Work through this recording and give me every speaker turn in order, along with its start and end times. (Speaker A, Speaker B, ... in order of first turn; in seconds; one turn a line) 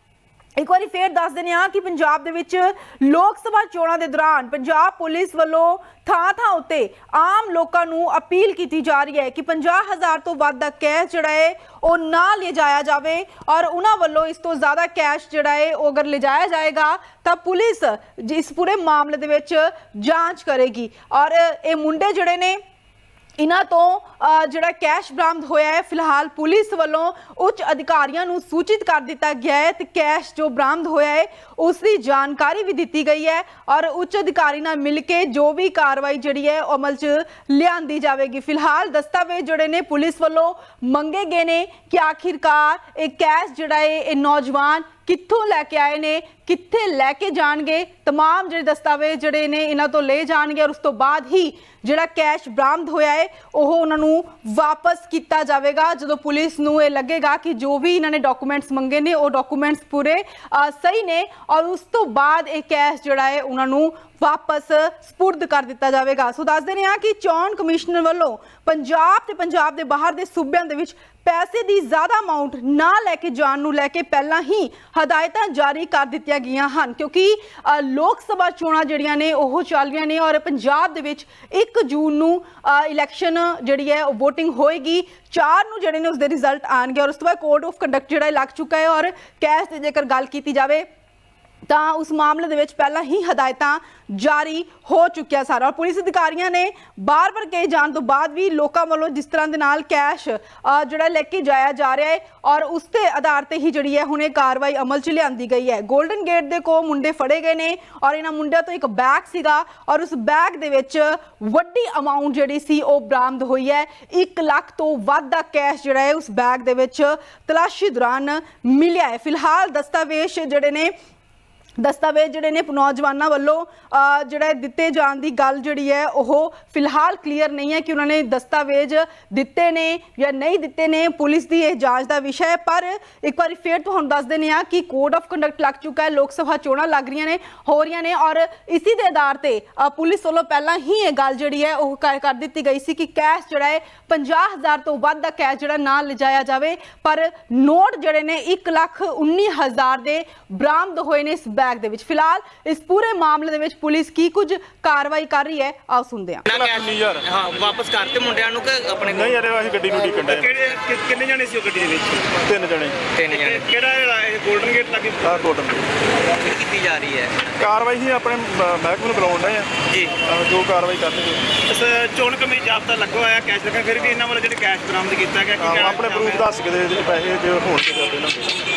Speaker A: 0.6-22.6
Speaker A: 23.4-90.9
Speaker A: 91.7-120.9
Speaker A: 121.8-156.4
Speaker B: 156.5-159.4
Speaker C: 156.5-157.3
Speaker C: 159.1-160.5
Speaker D: 160.2-162.4
Speaker C: 162.4-163.0
Speaker B: 163.2-163.7
Speaker D: 163.3-165.4
Speaker C: 165.2-165.9
Speaker B: 166.4-167.5
Speaker C: 167.6-169.7
Speaker B: 169.9-170.2
Speaker C: 170.2-171.6
Speaker D: 171.7-176.4
Speaker C: 175.6-178.6